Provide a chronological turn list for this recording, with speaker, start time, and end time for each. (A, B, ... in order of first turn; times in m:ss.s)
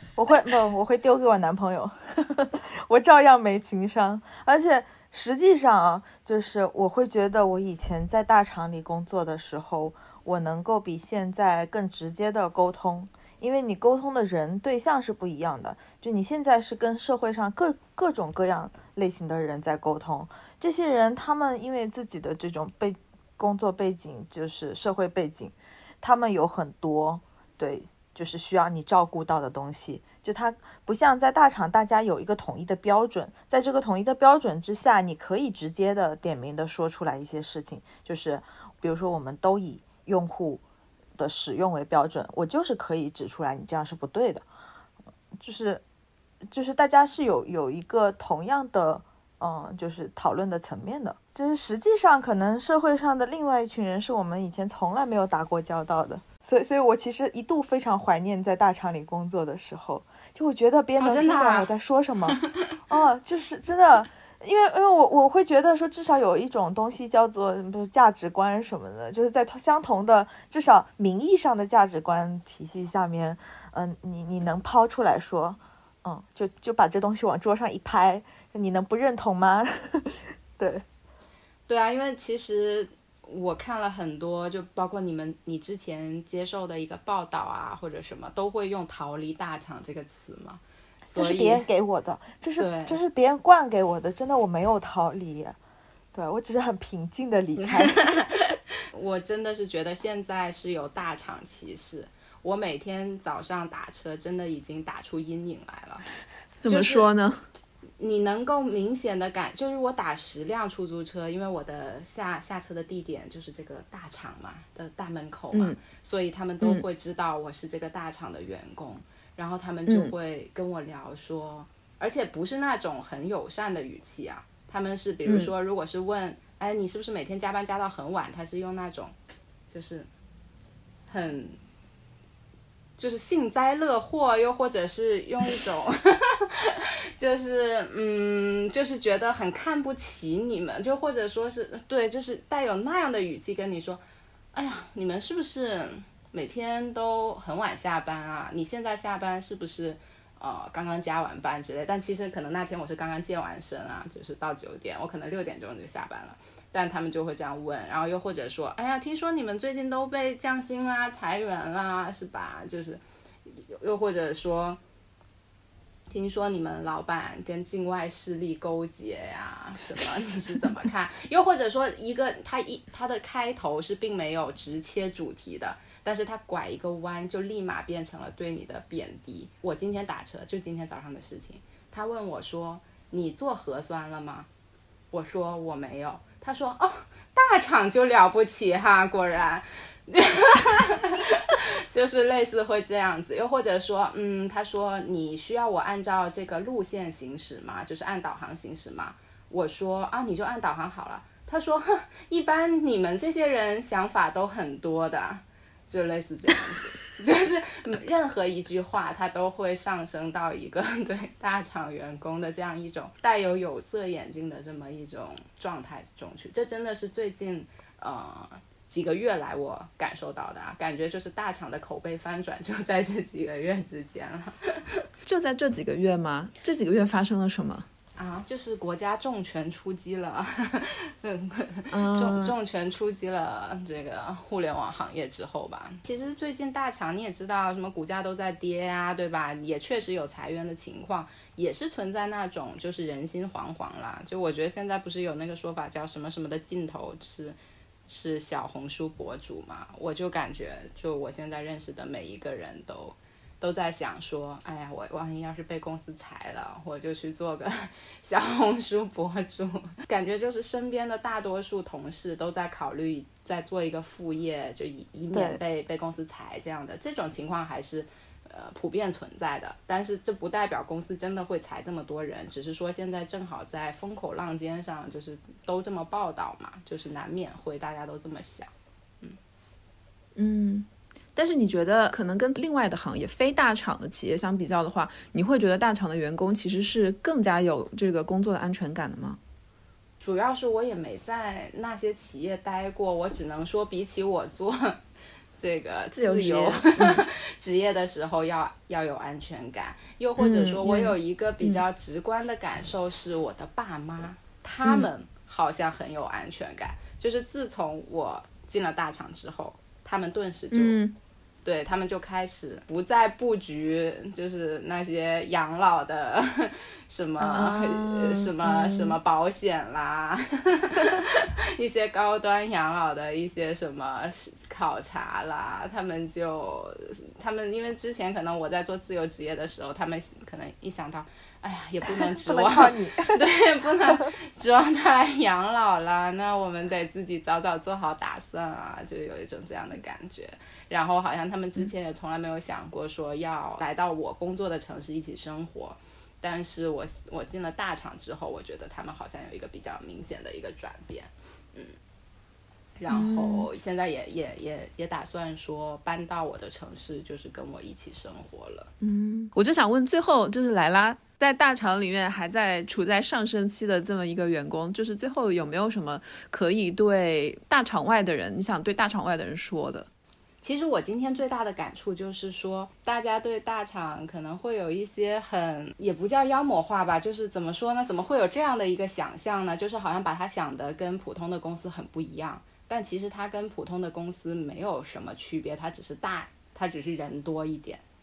0:00.2-0:40.6 A
0:41.2-0:44.5 A
0:45.4-0:45.8 A
0:46.5-1:02.4 A
1:01.0-1:01.7 B
1:02.9-1:20.8 A
1:21.7-1:31.7 B
1:31.2-1:35.6 A
1:32.6-1:33.0 B
1:36.1-1:38.1 A
1:37.6-1:46.0 B
1:46.6-1:47.5 C
1:46.7-1:47.1 B
1:48.0-2:09.2 B
1:55.5-1:55.8 C
1:59.9-2:00.1 C
2:05.3-2:05.5 C
2:09.7-2:10.1 B
2:11.1-2:11.6 B
2:13.0-2:24.0 B
2:24.5-2:44.8 B
2:46.1-3:04.5 B
3:05.1-3:45.0 B
3:45.2-3:47.9 C
3:48.2-4:07.6 B
3:51.9-3:52.5 C
4:08.1-4:38.7 B
4:25.3-4:25.6 A
4:40.4-4:49.4 C
4:50.2-4:55.0 B
4:55.6-5:11.0 B
4:56.1-4:57.2 C
5:00.4-5:01.8 C
5:10.7-5:11.1 C
5:11.6-5:52.0 B
5:17.4-5:19.2 C
5:32.1-5:33.4 A
5:53.0-5:58.9 B
5:53.1-5:53.7 C
5:59.0-6:10.1 C
6:10.6-6:28.0 B